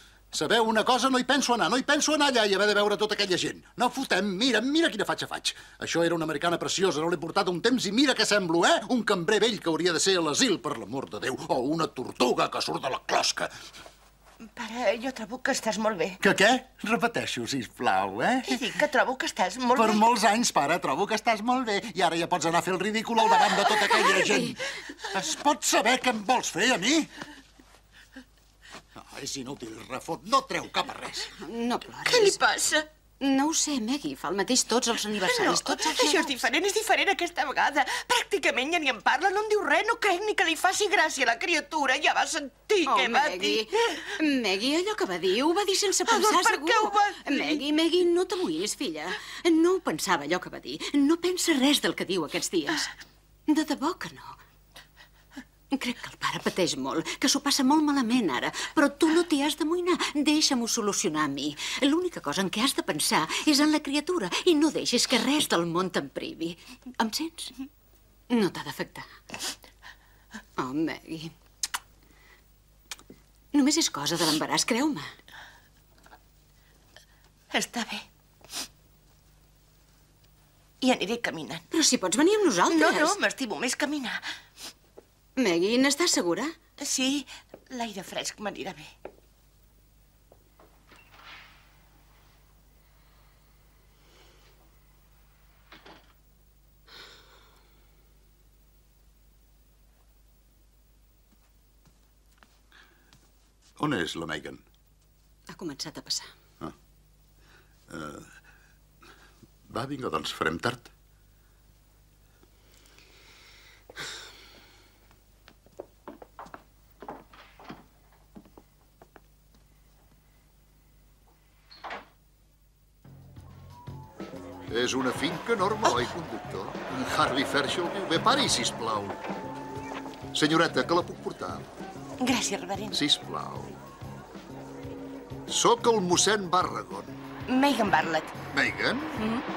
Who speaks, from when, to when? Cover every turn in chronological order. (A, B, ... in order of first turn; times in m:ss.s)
0:00.3-0:13.5 A
0:14.5-0:16.2 B
0:16.2-0:18.8 A
0:18.5-0:20.0 B
0:19.8-0:27.1 A
0:24.1-0:24.5 C
0:29.0-0:31.3 A
0:31.4-0:32.4 C
0:32.1-0:32.9 B
0:33.2-0:36.4 C
0:35.1-0:44.0 B
0:42.8-0:52.9 C
0:46.1-0:47.6 B
0:53.5-0:54.4 C
0:55.7-1:07.5 C
1:08.3-1:09.1 C
1:10.6-1:11.3 C
1:13.5-1:15.1 C
1:17.5-1:18.0 B
1:20.8-1:21.6 B
1:21.7-1:23.2 C
1:22.7-1:24.2 B
1:25.4-1:26.6 C
1:26.8-1:28.9 B
1:43.8-1:44.6 A
1:45.5-1:46.3 C
1:47.9-1:48.4 A
1:49.7-1:50.9 A
2:04.7-2:09.2 D
2:10.3-2:11.7 D
2:12.2-2:13.0 B
2:12.9-2:13.8 D
2:15.5-2:17.2 D
2:17.5-2:18.3 B
2:18.5-2:19.3 D